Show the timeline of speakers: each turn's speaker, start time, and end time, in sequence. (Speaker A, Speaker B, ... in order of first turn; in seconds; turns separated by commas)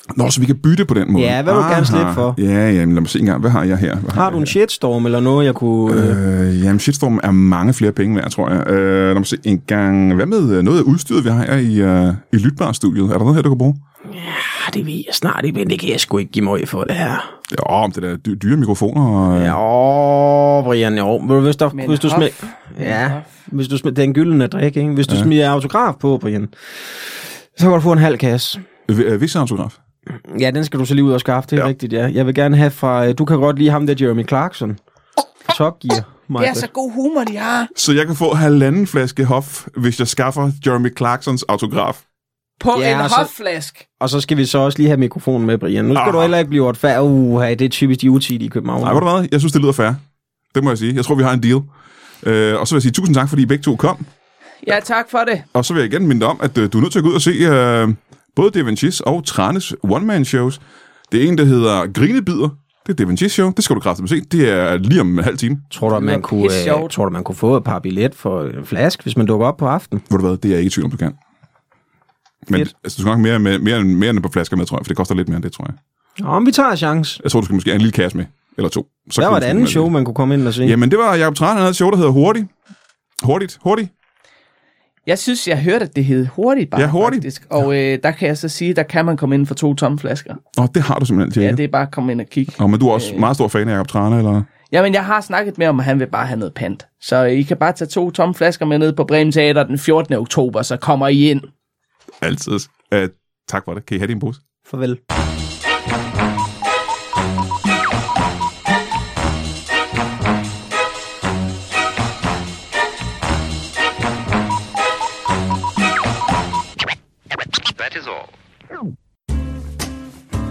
Speaker A: 0.1-4.5, Speaker B: 1.1-2.4, Speaker B: 4.1-6.2, Speaker A: 5.9-13.8, Speaker B: 14.1-17.3, Speaker A: 17.5-19.6, Speaker B: 19.3-26.5, Speaker C: 21.7-23.3, Speaker B: 27.6-28.6, Speaker A: 28.9-29.8, Speaker B: 30.1-34.8, Speaker B: 35.5-36.7, Speaker C: 36.4-37.7, Speaker A: 37.8-42.0, Speaker C: 42.6-43.8, Speaker B: 42.8-43.3, Speaker B: 44.0-49.0, Speaker A: 46.0-46.3, Speaker A: 48.8-50.0, Speaker A: 50.5-51.7, Speaker A: 52.2-54.1, Speaker C: 54.6-55.5, Speaker A: 55.5-65.7, Speaker B: 65.7-70.0, Speaker C: 65.9-66.9, Speaker A: 70.1-71.2, Speaker A: 72.5-75.8, Speaker B: 76.2-77.2, Speaker A: 77.2-79.9, Speaker B: 79.2-80.8, Speaker A: 80.6-82.5, Speaker A: 83.2-83.9, Speaker C: 85.1-90.4, Speaker A: 86.8-87.3, Speaker A: 90.6-91.6, Speaker C: 91.4-93.3, Speaker A: 92.6-94.5, Speaker C: 94.7-101.5, Speaker A: 102.2-104.4, Speaker B: 104.7-105.0